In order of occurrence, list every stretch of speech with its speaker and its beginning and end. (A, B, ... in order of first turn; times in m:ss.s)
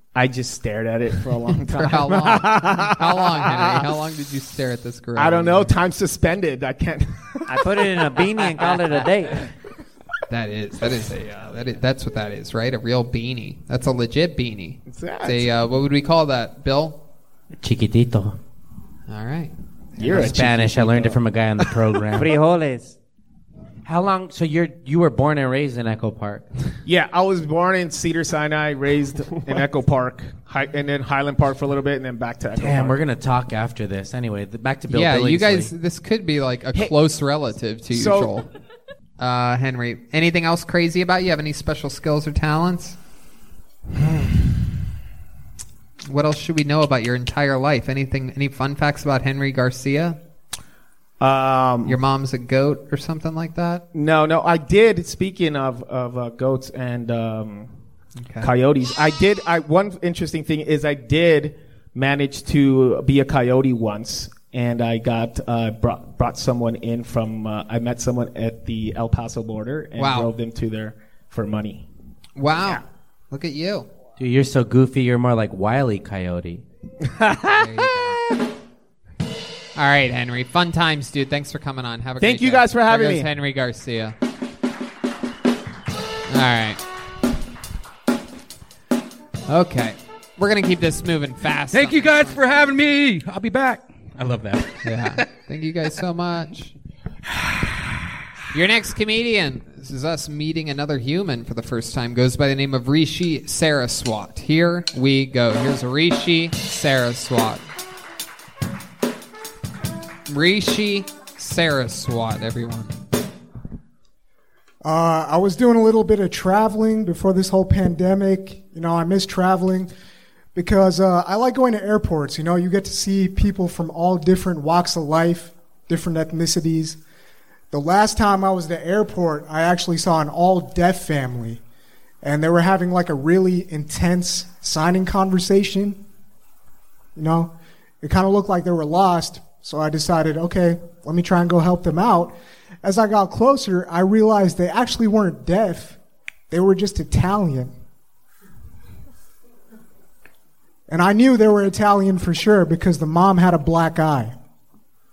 0:00.1-0:03.9 A
0:01.5-0:05.7 B
0:05.2-0:08.5 A
0:07.5-0:09.5 C
0:10.3-0:17.0 B
0:14.9-0:15.5 A
0:17.6-0:18.4 D
0:19.1-0:20.5 B
0:20.0-0:21.2 A
0:20.0-0:22.3 D
0:22.2-0:23.0 C
0:23.8-0:26.5 D
0:26.9-0:33.0 A
0:32.6-0:35.7 D
0:34.9-0:38.5 B
0:37.9-0:38.4 A
0:39.2-0:43.0 B
0:44.0-0:44.5 A
0:46.1-0:50.2 B
0:51.2-0:52.0 A
0:51.9-0:53.8 B
0:53.9-0:57.7 A
0:58.2-0:58.5 B
0:58.4-1:11.9 A
1:10.0-1:10.3 B
1:12.4-1:13.9 B
1:14.2-1:16.6 D
1:17.0-1:17.7 A
1:17.5-1:18.2 B
1:19.8-1:24.2 B
1:22.2-1:23.3 A
1:26.3-1:26.8 B
1:29.5-1:32.4 B
1:31.7-1:35.2 E
1:34.8-1:36.7 B
1:38.5-1:47.6 B
1:50.3-1:52.9 B
1:54.8-1:59.9 F
2:00.6-2:07.0 F
2:07.7-2:11.6 F
2:12.2-2:16.0 F
2:17.2-2:26.0 F
2:26.5-2:27.7 F
2:30.9-2:34.4 F